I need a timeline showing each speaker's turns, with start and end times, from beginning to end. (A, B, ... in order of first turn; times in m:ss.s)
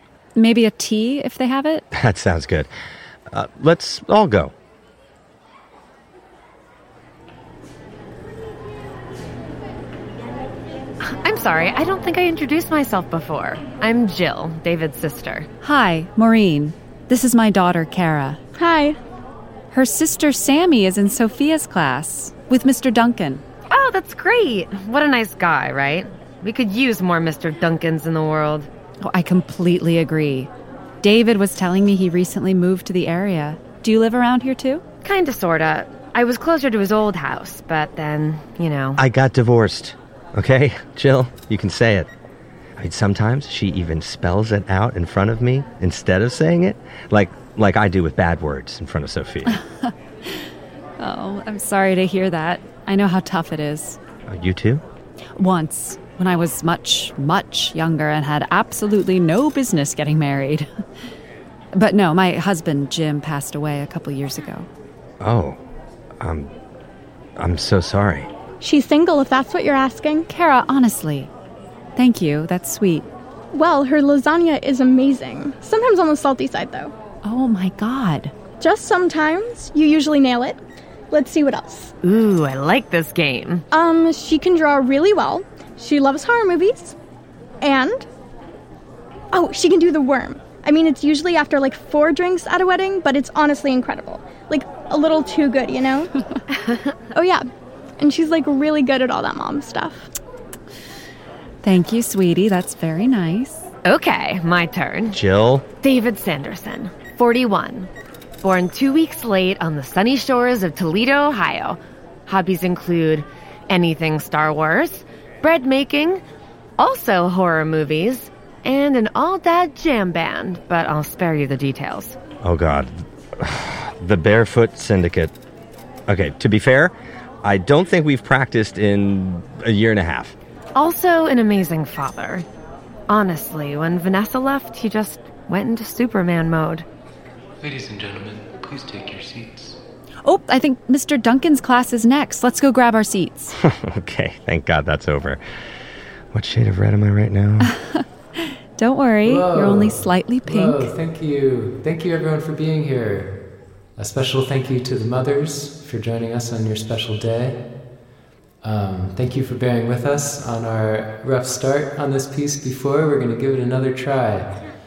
0:00.4-0:01.8 A
0:01.9-0:02.7 B
0:03.3-0:04.5 B
0:11.0-0:15.5 C
0:15.6-0:18.4 A
0:18.6-0:19.0 D
0:19.7-0:23.4 A
0:23.7-0:28.7 C
0:29.0-0:30.5 A
0:31.0-0:34.8 A
0:35.0-0:39.0 C
0:39.0-0:42.1 B
0:42.8-0:49.6 B
0:49.5-0:49.9 A
0:51.0-0:54.0 A
0:54.3-0:54.8 B
0:55.4-1:00.7 A
1:01.7-1:04.7 A
1:05.2-1:05.6 B
1:06.2-1:06.5 B
1:07.4-1:08.3 B
1:08.6-1:10.3 D
1:10.3-1:11.3 A
1:12.0-1:13.1 A
1:13.5-1:16.9 D
1:17.2-1:18.3 A
1:18.6-1:20.6 D
1:21.1-1:21.9 D
1:22.0-1:23.6 C
1:23.7-1:26.9 D
1:27.6-1:28.0 D
1:29.3-1:36.1 D
1:37.1-1:37.4 D
1:38.0-1:40.1 D
1:41.6-1:43.7 A
1:43.8-1:45.2 C
1:45.1-1:45.6 B
1:45.8-1:47.9 C
1:48.4-1:56.2 C
1:56.8-2:02.2 C
2:02.4-2:05.3 B
2:06.1-2:10.4 B
2:10.8-2:12.4 C
2:13.1-2:16.9 C
2:17.6-2:19.8 E
2:20.2-2:23.6 A
2:23.6-2:25.4 B
2:26.3-2:27.7 B
2:27.6-2:30.9 A
2:29.2-2:33.4 E
2:34.0-2:37.6 E
2:38.6-2:44.6 E